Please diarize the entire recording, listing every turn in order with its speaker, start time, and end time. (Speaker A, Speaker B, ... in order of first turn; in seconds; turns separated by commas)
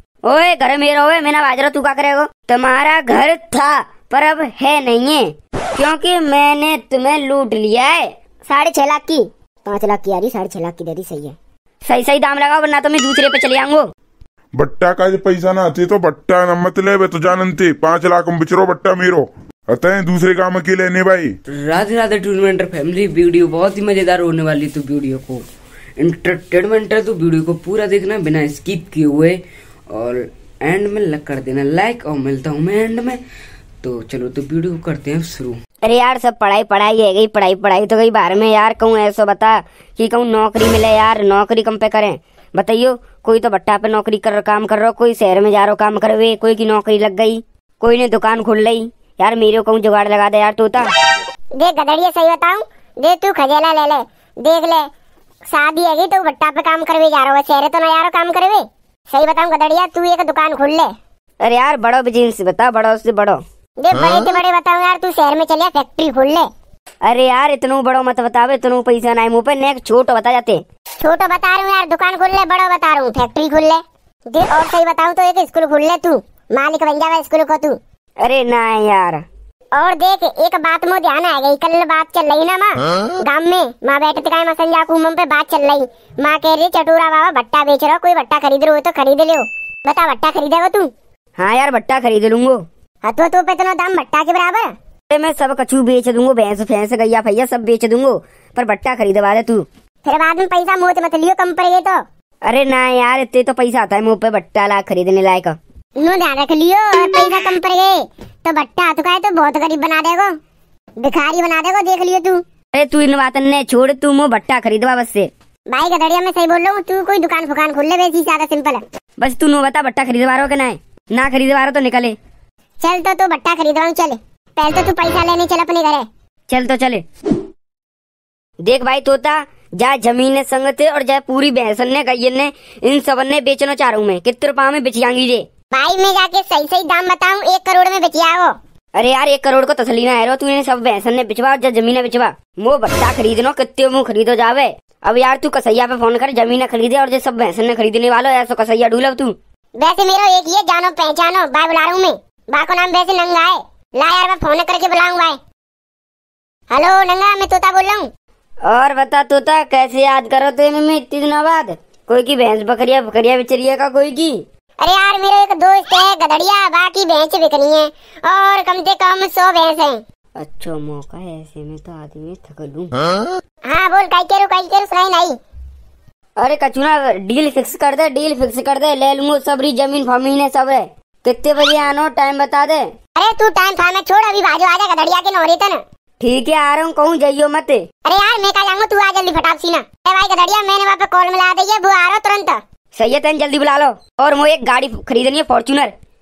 Speaker A: 0.3-8.1, Speaker B: 9.7-11.3, Speaker A: 11.9-13.8, Speaker C: 14.6-21.3, Speaker D: 21.6-25.4, Speaker D: 26.0-33.2, Speaker D: 33.8-35.6, Speaker A: 35.8-50.9, Speaker B: 51.6-54.9, Speaker B: 55.5-60.9, Speaker A: 61.4-63.4, Speaker B: 63.8-66.5, Speaker A: 67.0-70.6, Speaker B: 71.0-73.8, Speaker B: 74.3-77.8, Speaker A: 78.2-79.2, Speaker B: 79.8-90.9, Speaker A: 91.4-92.6, Speaker B: 93.0-94.7, Speaker A: 95.1-99.7, Speaker B: 100.0-102.0, Speaker A: 102.5-105.6, Speaker B: 106.0-110.3, Speaker B: 111.0-112.4, Speaker A: 112.7-115.3, Speaker B: 115.7-118.8, Speaker A: 119.2-122.2, Speaker B: 122.8-126.1, Speaker A: 126.5-127.0, Speaker A: 128.6-135.4, Speaker B: 135.7-138.5, Speaker A: 138.9-149.3, Speaker B: 149.8-155.4, Speaker B: 156.7-158.1, Speaker A: 158.7-164.4, Speaker B: 164.8-170.0, Speaker A: 170.4-173.0, Speaker B: 173.7-175.4, Speaker A: 176.4-182.8, Speaker B: 183.2-185.8, Speaker A: 186.2-187.8, Speaker B: 188.1-192.6, Speaker A: 193.0-195.9